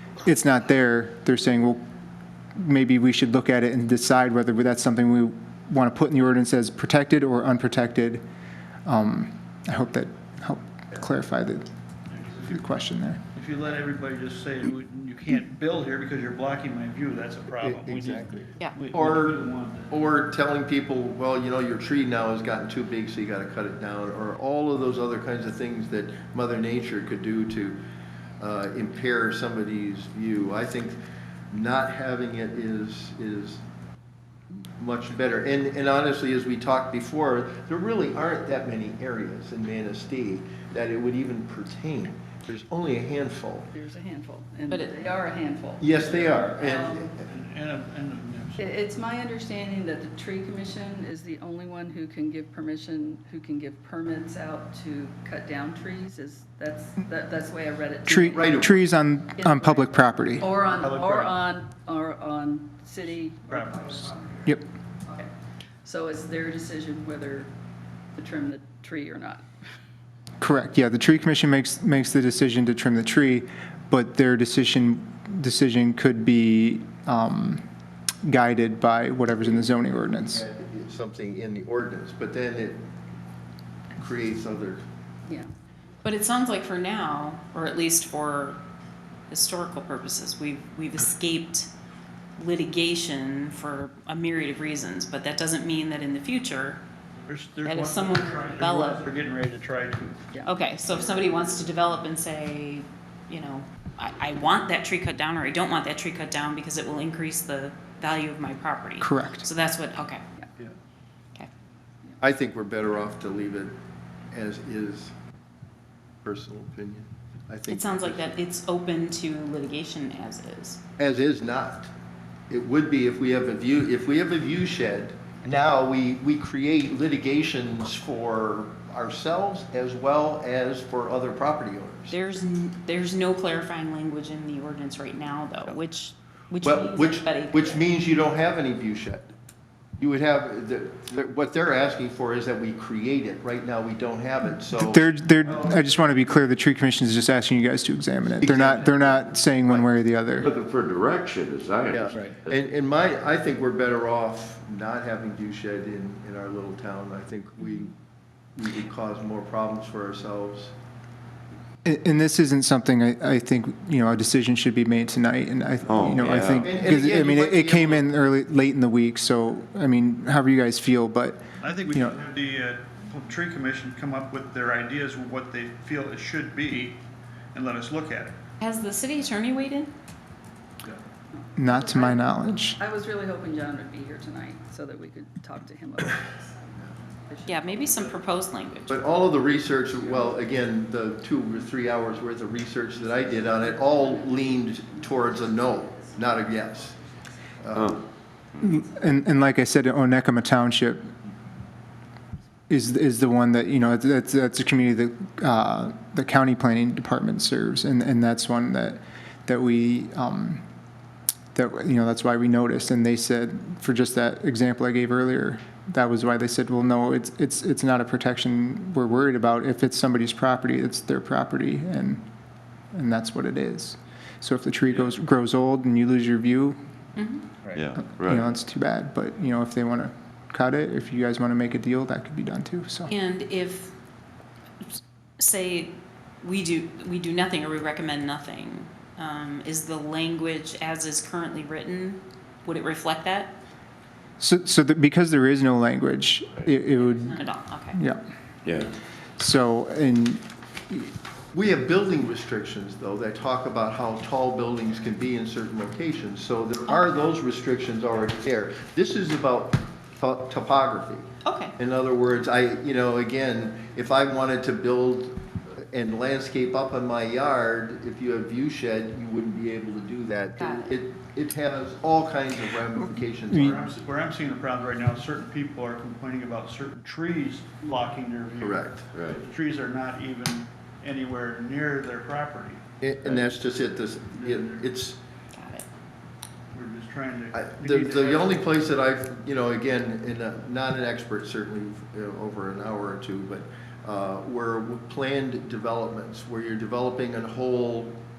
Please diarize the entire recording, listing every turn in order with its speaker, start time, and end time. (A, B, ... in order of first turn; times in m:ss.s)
0:00.2-0:01.8 A
0:02.6-0:08.2 A
0:08.8-0:11.7 A
0:12.1-0:12.5 B
0:12.4-0:13.2 A
0:13.3-0:20.0 B
0:17.6-0:19.4 C
0:19.9-0:27.8 C
0:28.4-0:31.0 C
0:31.5-0:33.6 C
0:34.8-0:43.7 C
0:43.7-0:47.1 D
0:44.7-0:45.0 E
0:45.8-0:47.2 C
0:46.1-0:46.4 B
0:47.2-0:48.7 B
0:48.6-0:58.8 D
0:58.1-1:00.5 A
0:58.2-0:58.8 C
0:59.3-1:05.3 D
1:00.7-1:01.4 B
1:03.5-1:04.1 B
1:05.8-1:07.5 D
1:08.1-1:09.5 D
1:10.4-1:17.6 A
1:18.2-1:20.4 A
1:20.1-1:22.8 C
1:23.9-1:24.8 C
1:25.2-1:25.5 D
1:26.0-1:28.6 E
1:29.3-1:31.7 E
1:32.4-1:36.8 E
1:37.3-1:40.3 B
1:37.6-1:39.0 E
1:40.4-1:50.2 E
1:49.0-1:49.5 A
1:52.2-1:53.8 C
1:54.3-1:55.1 C
1:56.2-1:58.3 C
1:57.7-2:00.8 E
2:01.0-2:01.9 C
2:02.5-2:12.1 C
2:12.1-2:17.9 E
2:16.6-2:19.3 C
2:20.0-2:25.8 C
2:24.7-2:30.5 A
2:28.4-2:29.9 C
2:30.4-2:32.6 F
2:31.9-2:37.9 C
2:38.6-2:40.7 C
2:41.8-2:52.1 A
2:45.8-2:46.7 F
2:46.6-2:48.0 C
2:51.6-2:57.0 B
2:57.5-2:58.4 B
2:58.6-2:59.9 E
3:01.3-3:08.2 D
3:01.6-3:02.8 A
3:07.4-3:09.0 E
3:08.9-3:17.0 C
3:13.2-3:17.1 D
3:17.6-3:18.0 C
3:17.7-3:18.0 F
3:18.6-3:21.1 A
3:22.7-3:30.6 A
3:31.5-3:42.2 A
3:42.9-3:46.8 A
3:47.2-3:47.4 E
3:47.7-3:48.5 F
3:47.9-3:53.1 A
3:53.1-3:53.9 E
3:54.8-4:03.5 E
4:04.4-4:07.4 A
4:06.9-4:08.0 E
4:07.9-4:08.2 A
4:08.6-4:08.9 F
4:09.4-4:11.1 A
4:11.5-4:33.9 C
4:21.4-4:21.8 E
4:30.6-4:30.9 E
4:33.5-4:33.8 A
4:33.6-4:42.8 B
4:38.6-4:39.1 C
4:39.1-4:39.4 F
4:43.0-4:45.2 C
4:44.4-4:44.8 B
4:45.5-4:45.8 E
4:46.7-4:48.8 B
4:47.5-4:58.2 C